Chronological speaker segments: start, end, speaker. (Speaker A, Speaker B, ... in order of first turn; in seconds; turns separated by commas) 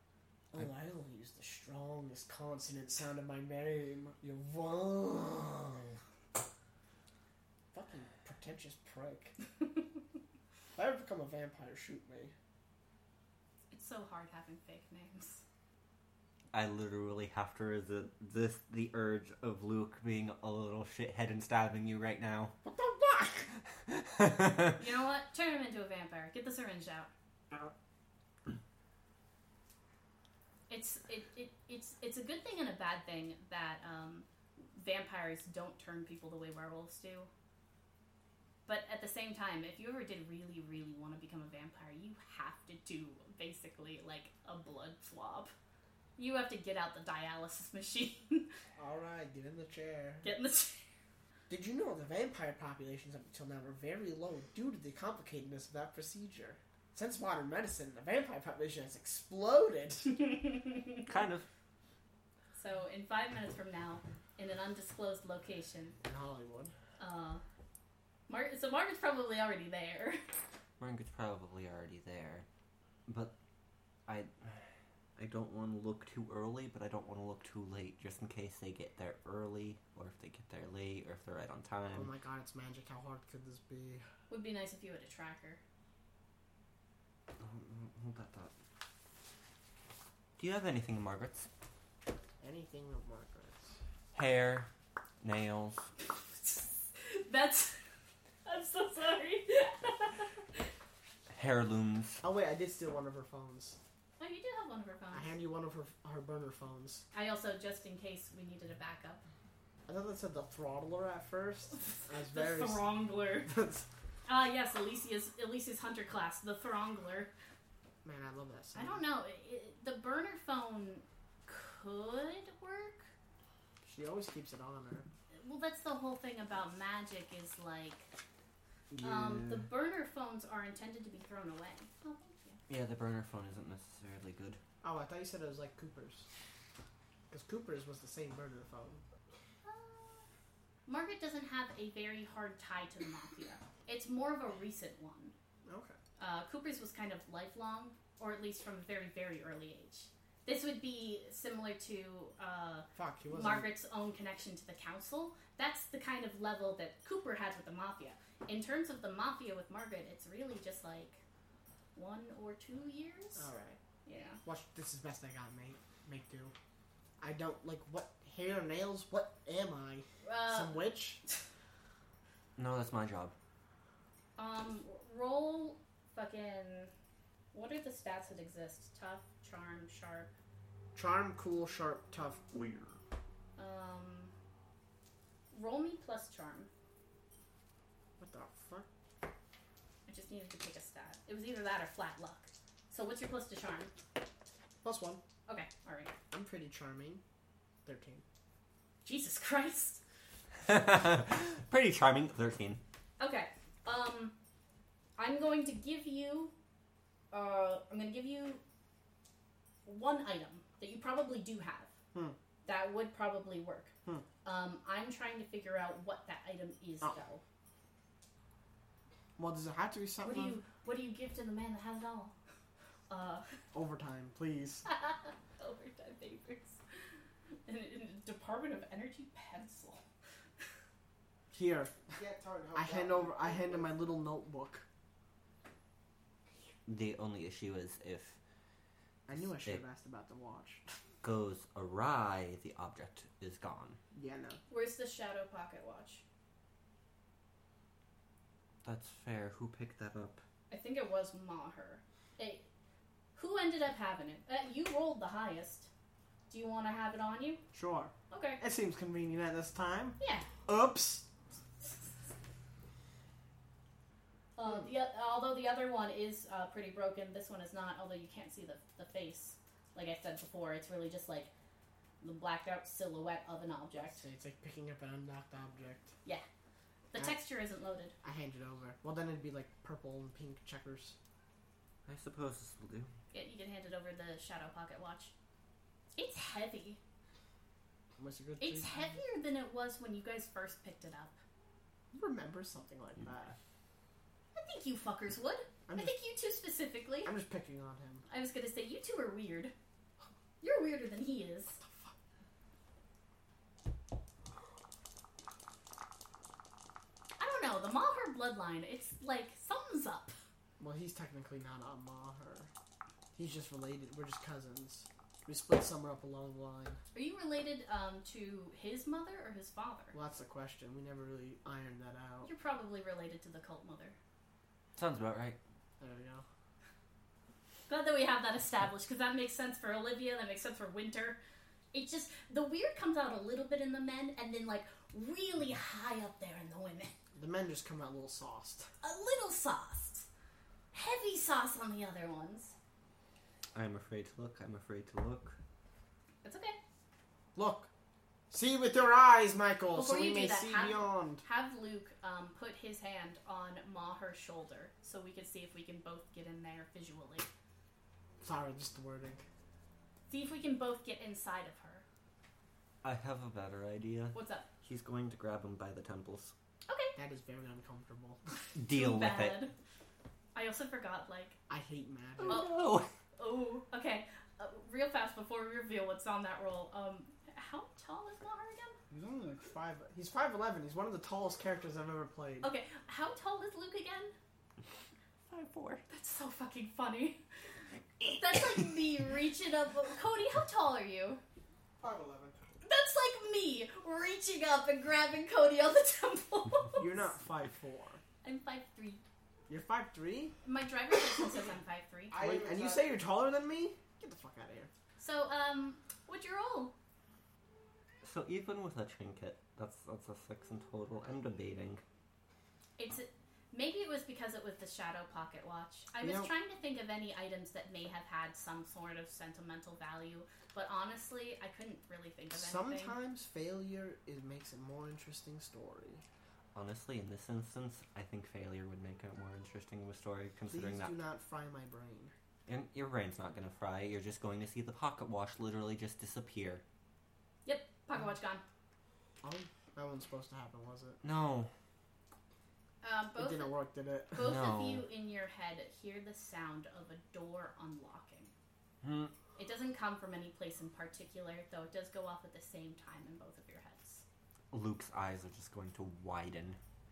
Speaker A: 0.5-6.0, Speaker A: 7.7-9.3, Speaker A: 10.8-12.3, Speaker B: 13.7-15.4, Speaker C: 16.5-22.6, Speaker A: 22.6-23.5, Speaker C: 23.9-24.7, Speaker B: 24.8-27.1, Speaker B: 30.7-37.3, Speaker B: 38.7-45.5, Speaker B: 46.2-48.5, Speaker A: 48.8-50.3, Speaker B: 50.2-50.9, Speaker A: 51.5-60.4, Speaker B: 60.6-61.0, Speaker C: 61.1-61.5, Speaker B: 62.5-66.0, Speaker A: 66.0-66.7, Speaker B: 67.0-67.4, Speaker B: 68.3-70.2, Speaker C: 70.8-72.5, Speaker C: 73.1-73.3, Speaker C: 74.1-82.1, Speaker A: 81.9-84.0, Speaker B: 84.3-85.6, Speaker C: 87.4-88.5, Speaker C: 90.4-91.5, Speaker A: 92.4-93.7, Speaker C: 94.1-94.7, Speaker C: 95.2-95.8, Speaker B: 96.4-97.8, Speaker B: 98.5-100.7, Speaker C: 101.3-102.2, Speaker A: 102.2-103.8, Speaker B: 104.2-105.3, Speaker A: 105.1-107.0, Speaker B: 107.1-109.2, Speaker A: 109.9-112.9, Speaker B: 112.3-113.5, Speaker A: 113.5-113.9, Speaker B: 114.3-117.3, Speaker A: 118.0-119.0, Speaker B: 118.8-123.1, Speaker A: 123.8-125.1, Speaker B: 125.3-128.1, Speaker A: 128.9-129.6, Speaker B: 129.0-132.6, Speaker C: 132.7-134.6, Speaker A: 134.8-136.3, Speaker A: 137.3-139.0, Speaker B: 139.6-140.3, Speaker B: 140.9-145.3, Speaker A: 145.7-146.0, Speaker B: 146.2-161.2, Speaker A: 152.9-153.7, Speaker B: 161.9-163.5, Speaker A: 163.4-163.8, Speaker B: 164.1-164.4, Speaker A: 164.4-166.5, Speaker A: 167.2-171.2, Speaker B: 170.2-170.8, Speaker C: 172.6-173.3, Speaker B: 174.4-176.9, Speaker B: 177.5-180.3, Speaker A: 180.9-182.5, Speaker B: 183.6-184.3, Speaker B: 185.5-186.7, Speaker A: 188.2-188.9, Speaker B: 190.1-193.9, Speaker A: 194.8-195.2, Speaker B: 195.5-196.1, Speaker A: 196.3-197.2, Speaker A: 197.8-198.2, Speaker B: 199.1-200.0, Speaker C: 200.7-202.8, Speaker B: 203.2-204.3, Speaker B: 205.2-206.5, Speaker B: 207.3-208.6, Speaker B: 209.8-211.9, Speaker B: 212.7-217.4, Speaker A: 219.4-220.6, Speaker B: 220.2-222.3, Speaker B: 223.1-223.6, Speaker A: 223.7-224.8, Speaker B: 224.9-226.8, Speaker B: 227.7-230.0, Speaker A: 231.5-234.9, Speaker D: 232.1-234.1, Speaker C: 236.9-238.4, Speaker A: 239.3-241.0, Speaker C: 239.4-239.8, Speaker C: 241.2-244.0, Speaker A: 244.1-244.6, Speaker B: 244.7-246.2, Speaker C: 248.8-250.4, Speaker B: 250.7-252.7, Speaker B: 253.3-255.9, Speaker B: 256.5-257.6, Speaker A: 257.7-261.3, Speaker B: 258.3-258.6, Speaker B: 260.2-260.5, Speaker B: 264.6-271.5, Speaker B: 272.2-274.3, Speaker A: 274.0-276.1, Speaker B: 277.1-278.1, Speaker A: 278.2-281.2, Speaker C: 282.1-283.1, Speaker B: 283.3-285.3, Speaker B: 286.2-287.0, Speaker A: 288.2-289.2, Speaker B: 288.6-291.4, Speaker A: 292.1-293.6, Speaker B: 294.6-297.3, Speaker A: 295.9-296.1, Speaker A: 297.2-298.2, Speaker B: 298.3-299.7, Speaker B: 300.6-301.8, Speaker B: 307.4-310.4, Speaker A: 310.8-312.7, Speaker A: 313.3-317.0, Speaker B: 317.1-320.2, Speaker A: 320.1-322.5, Speaker B: 322.4-324.2, Speaker C: 325.0-325.6, Speaker A: 326.0-326.4, Speaker B: 327.9-331.4, Speaker B: 331.9-337.1, Speaker A: 337.3-338.9, Speaker B: 339.0-340.3, Speaker B: 340.9-342.8, Speaker C: 343.8-345.6, Speaker B: 346.4-346.8, Speaker A: 347.6-347.9, Speaker A: 348.5-351.4, Speaker B: 349.9-357.5, Speaker A: 358.4-359.4, Speaker B: 360.3-362.1, Speaker C: 363.0-366.5, Speaker B: 364.3-364.7, Speaker B: 366.9-367.2, Speaker A: 367.2-368.4, Speaker C: 368.8-369.6, Speaker B: 368.9-369.7, Speaker B: 370.6-371.6, Speaker A: 371.7-372.6, Speaker C: 372.4-373.1, Speaker B: 372.5-372.7, Speaker B: 373.4-379.0, Speaker A: 379.1-382.7, Speaker B: 382.6-384.4, Speaker C: 385.5-386.0, Speaker B: 386.1-387.4, Speaker C: 388.2-388.8, Speaker B: 388.4-391.4, Speaker D: 392.0-392.6, Speaker B: 392.8-397.3, Speaker A: 397.0-398.2, Speaker B: 398.4-399.2, Speaker A: 399.7-400.6, Speaker B: 400.6-402.4, Speaker D: 402.3-403.1, Speaker A: 402.4-404.9, Speaker B: 405.2-406.9, Speaker C: 408.2-412.0, Speaker B: 413.0-423.2, Speaker A: 416.2-416.5, Speaker A: 422.5-426.2, Speaker C: 426.7-431.2, Speaker A: 430.7-432.3, Speaker C: 432.7-436.8, Speaker B: 437.7-438.6, Speaker A: 439.4-441.2, Speaker C: 441.2-441.7, Speaker B: 443.0-443.8, Speaker A: 443.4-444.6, Speaker B: 444.3-448.5, Speaker C: 444.4-445.1, Speaker C: 449.0-449.3, Speaker B: 449.6-454.2, Speaker C: 454.7-456.8